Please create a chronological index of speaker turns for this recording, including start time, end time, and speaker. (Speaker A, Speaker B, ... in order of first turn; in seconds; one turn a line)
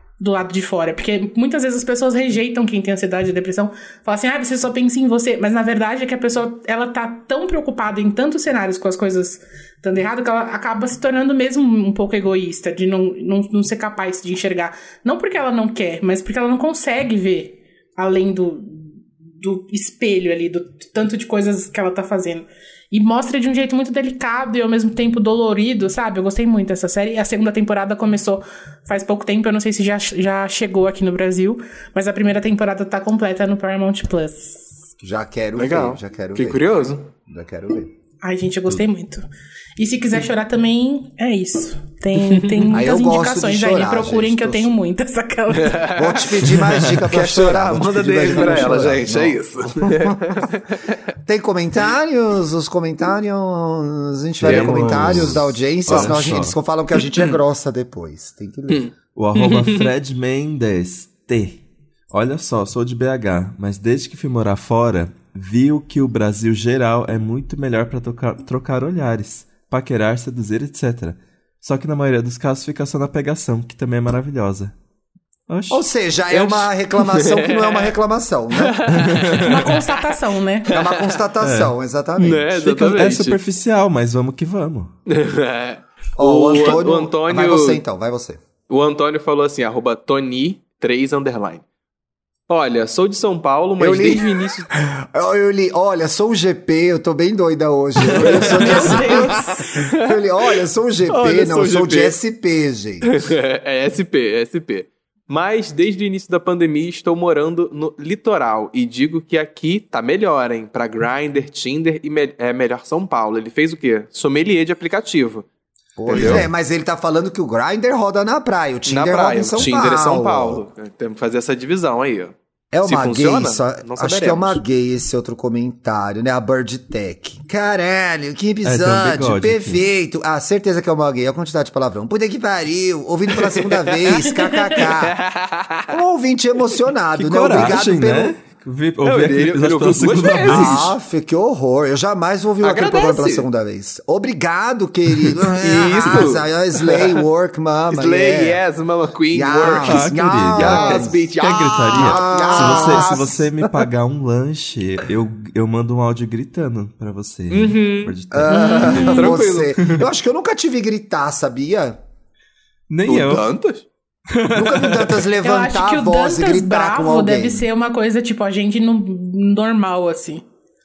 Speaker A: 0.2-34.8
Speaker B: 35.0-36.6
Speaker C: 35.5-37.1
Speaker B: 37.2-37.9
Speaker A: 38.2-39.2
Speaker A: 39.8-45.9
Speaker C: 42.2-42.7
Speaker B: 42.7-44.7
Speaker C: 45.5-51.0
Speaker B: 45.9-50.5
Speaker B: 51.2-58.8
Speaker D: 54.4-56.5
Speaker C: 54.4-56.2
Speaker C: 58.7-59.9
Speaker D: 59.1-74.7
Speaker D: 75.5-75.8
Speaker B: 75.7-78.9
Speaker C: 76.3-77.9
Speaker C: 78.5-79.8
Speaker D: 78.9-79.8
Speaker A: 79.4-80.7
Speaker B: 80.7-82.5
Speaker C: 80.7-81.2
Speaker D: 81.4-81.7
Speaker C: 82.2-83.4
Speaker D: 82.5-84.9
Speaker C: 85.1-87.8
Speaker B: 86.2-88.4
Speaker C: 88.7-91.6
Speaker C: 92.5-94.7
Speaker B: 93.8-94.2
Speaker B: 95.0-103.1
Speaker C: 98.1-100.2
Speaker D: 98.4-99.0
Speaker A: 98.4-99.7
Speaker C: 101.1-102.2
Speaker C: 103.0-115.5
Speaker B: 116.0-120.6
Speaker C: 116.1-116.5
Speaker D: 116.1-116.5
Speaker C: 118.8-124.6
Speaker B: 122.7-135.2
Speaker D: 128.6-129.8
Speaker C: 133.3-136.0
Speaker B: 135.9-138.4
Speaker D: 137.1-140.9
Speaker C: 139.0-140.9
Speaker B: 140.4-148.6
Speaker C: 142.6-143.5
Speaker C: 145.4-147.2
Speaker C: 147.9-153.4
Speaker B: 149.3-153.4
Speaker D: 149.7-159.1
Speaker C: 157.5-158.2
Speaker B: 158.3-162.0
Speaker A: 158.5-159.3
Speaker C: 159.1-159.7
Speaker D: 162.9-163.5
Speaker C: 163.1-163.8
Speaker D: 164.3-165.2
Speaker B: 164.5-167.7
Speaker A: 165.4-170.4